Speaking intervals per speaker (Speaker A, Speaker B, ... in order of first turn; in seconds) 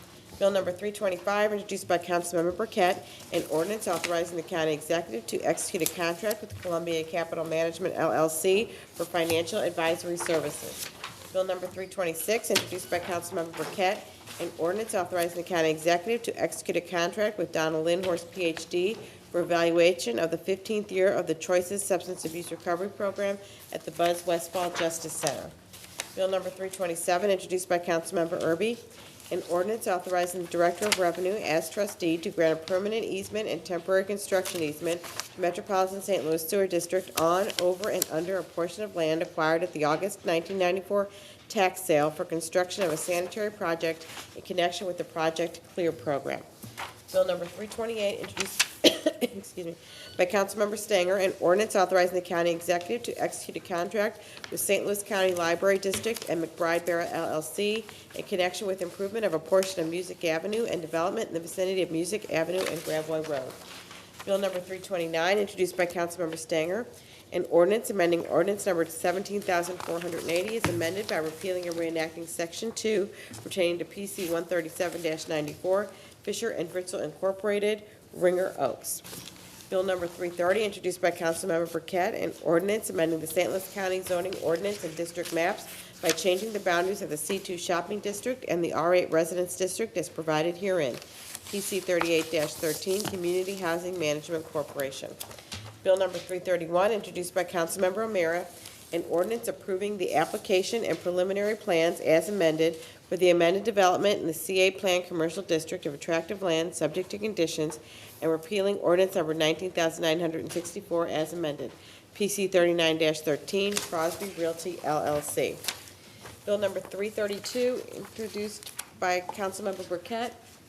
Speaker A: 0.4-25.5, 26.1-46.5, 47.1-63.6, 64.2-79.0, 79.7-95.2, 95.8-115.6, 116.5-120.4